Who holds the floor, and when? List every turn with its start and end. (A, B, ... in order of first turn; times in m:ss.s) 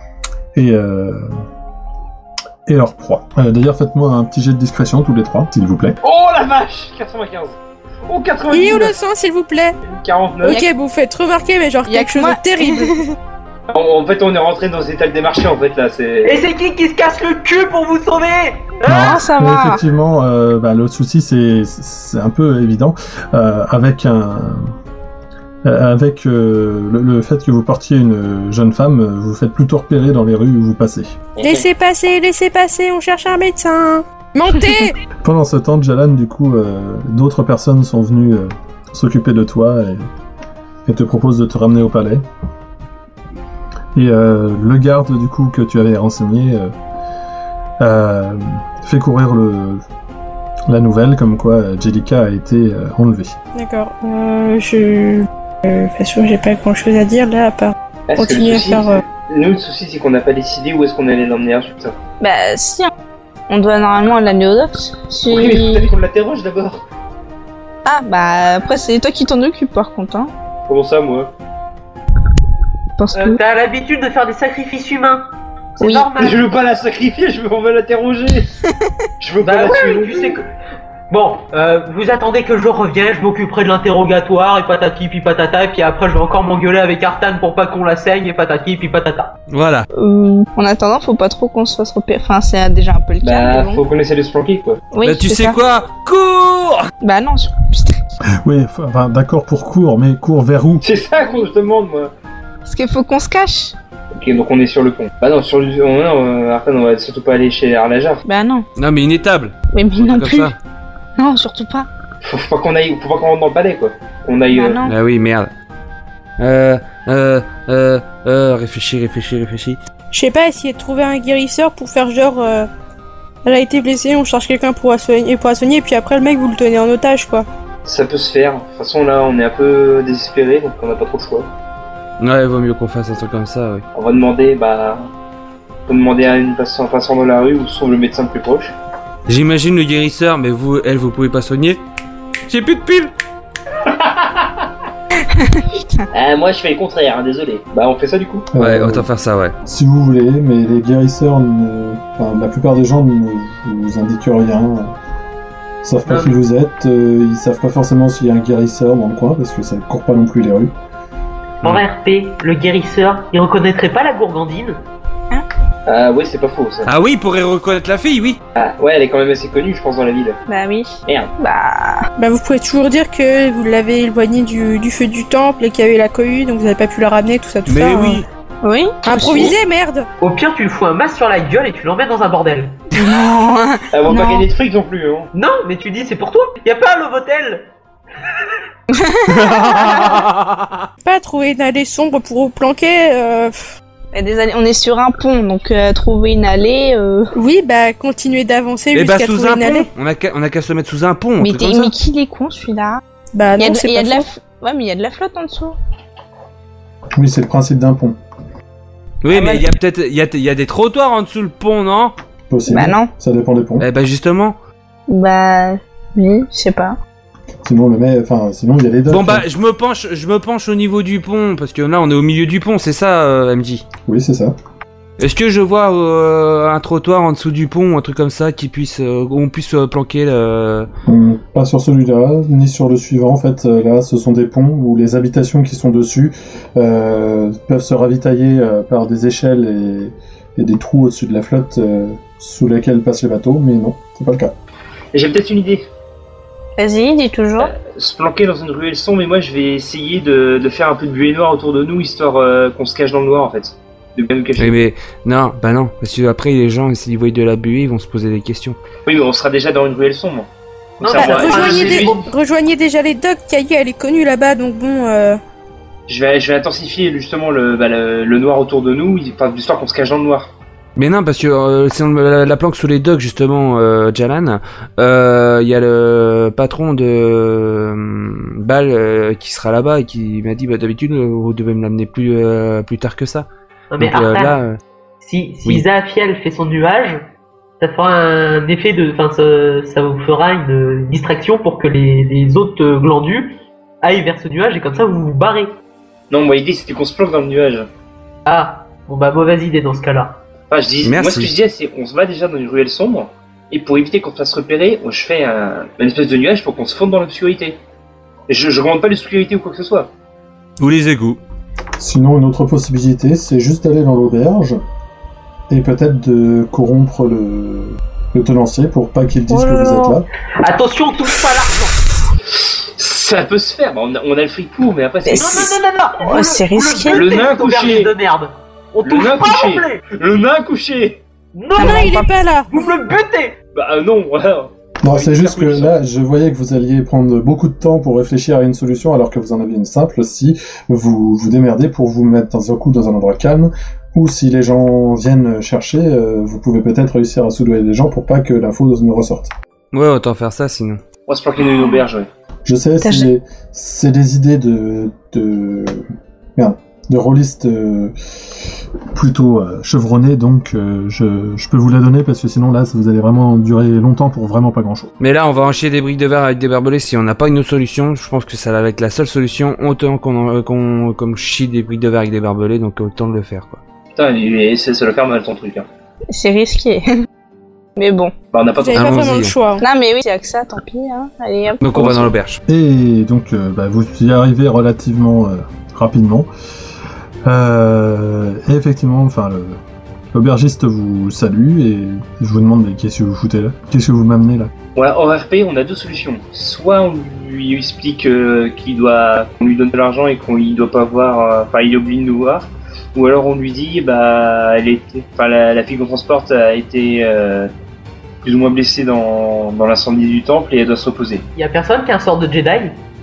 0:00.5-0:01.3 A
0:02.7-0:06.0 A
0:06.0-0:08.9 B
0:08.5-0:09.8 C
0:09.8-0:10.6 B
0:10.4-0:13.1 C
0:11.9-0:13.0 D
0:13.7-0:16.4 B
0:16.2-0:19.2 E
0:18.9-0:24.7 A
0:18.9-0:19.8 D
0:25.6-0:31.2 A
0:31.4-0:31.7 B
0:31.4-0:35.0 C
0:35.2-0:40.1 A
0:40.9-0:42.2 A
0:44.0-0:46.7 A
0:47.8-0:49.8 A
0:50.7-0:53.4 A
0:53.6-0:59.0 C
0:58.1-1:02.0 B
1:02.2-1:02.9 D
1:03.5-1:05.9 D
1:05.3-1:06.8 B
1:07.9-1:10.3 D
1:10.7-1:11.3 B
1:13.0-1:13.4 D
1:13.1-1:16.4 E
1:15.8-1:16.1 D
1:16.2-1:18.5 B
1:19.2-1:20.5 B
1:19.4-1:20.5 E
1:21.1-1:29.4 E
1:29.5-1:29.9 F
1:29.9-1:33.8 D
1:33.2-1:34.8 B
1:34.9-1:35.6 D
1:35.0-1:36.9 F
1:37.0-1:38.2 D
1:38.3-1:40.8 A
1:40.8-1:42.1 B
1:42.6-1:43.8 D
1:44.2-1:48.2 B
1:48.2-1:48.7 D
1:48.8-1:50.6 F
1:49.7-1:50.6 D
1:51.2-1:51.9 D
1:52.2-1:54.8 B
1:54.5-1:55.0 D
1:54.8-1:55.5 F
1:56.4-1:59.8 F
2:00.1-2:02.7 C
2:03.4-2:07.5 C
2:07.8-2:11.5 B
2:12.2-2:13.8 F
2:14.0-2:15.1 B
2:15.9-2:18.7 B
2:19.3-2:21.8 F
2:22.5-2:23.1 F
2:23.9-2:24.5 B
2:25.3-2:26.1 D
2:26.1-2:28.5 B
2:28.5-2:29.1 A
2:28.6-2:29.6 F
2:29.6-2:34.9 A
2:35.8-2:40.7 A
2:36.1-2:36.4 E
2:41.6-2:44.8 E
2:45.9-2:46.9 B
2:46.8-2:48.4 F
2:48.6-2:50.4 B
2:50.5-2:52.1 D
2:52.2-2:58.2 C
2:57.7-2:58.2 F
2:58.6-2:59.6 D
2:59.0-3:00.1 C
3:00.2-3:02.8 E
3:02.9-3:04.5 D
3:03.9-3:05.3 B
3:05.3-3:07.7 E
3:08.9-3:10.2 D
3:09.3-3:10.9 F
3:11.0-3:13.7 C
3:14.1-3:17.3 D
3:17.4-3:19.9 C
3:18.9-3:21.9 F
3:21.4-3:23.0 D
3:23.3-3:24.2 C
3:23.6-3:25.8 D
3:27.2-3:28.2 A
3:29.2-3:32.1 F
3:29.3-3:29.7 D
3:32.5-3:33.9 A
3:32.7-3:33.1 D
3:33.8-3:34.6 F
3:35.1-3:37.0 D
3:37.6-3:39.4 A
3:39.1-3:43.9 F
3:44.0-3:44.5 A
3:45.2-3:50.9 F
3:51.1-4:04.5 A
4:05.1-4:05.8 B
4:06.8-4:07.7 D
4:07.6-4:14.8 B
4:14.6-4:18.8 F
4:19.1-4:20.5 B
4:21.0-4:22.1 B
4:21.0-4:22.3 E
4:21.2-4:25.4 C
4:26.1-4:30.5 B
4:31.0-4:43.5 F
4:43.9-4:44.6 E
4:44.0-4:44.8 F
4:45.2-4:47.3 E
4:47.8-4:55.7 E
4:56.3-4:57.9 B
4:58.5-5:00.4 E
5:00.7-5:07.8 B
5:01.0-5:01.5 F
5:08.5-5:10.1 B
5:10.8-5:11.4 F
5:12.0-5:14.8 A
5:15.7-5:20.3 A
5:19.5-5:20.2 D
5:20.6-5:22.0 E
5:22.6-5:25.7 B
5:25.3-5:27.2 D
5:25.4-5:30.0 E
5:27.1-5:28.1 B
5:29.0-5:31.2 B
5:31.5-5:33.6 E
5:31.8-5:32.3 D
5:31.8-5:32.8 C
5:33.7-5:36.0 B
5:35.0-5:49.5 A
5:49.9-5:51.0 F
5:51.3-5:52.3 B
5:52.7-5:58.6 A
5:53.0-5:53.3 D
5:59.1-6:05.1 A
6:05.2-6:13.8 F
6:14.2-6:15.9 B
6:16.3-6:17.3 D
6:18.0-6:18.3 D
6:18.5-6:19.3 B
6:18.8-6:19.8 C
6:18.9-6:19.6 F
6:19.8-6:22.1 D
6:21.8-6:22.6 F
6:22.0-6:22.3 B
6:22.7-6:26.5 A
6:27.4-6:29.8 A
6:30.3-6:34.7 A
6:35.0-6:47.7 B
6:48.4-6:51.4 B
6:51.6-6:53.0 E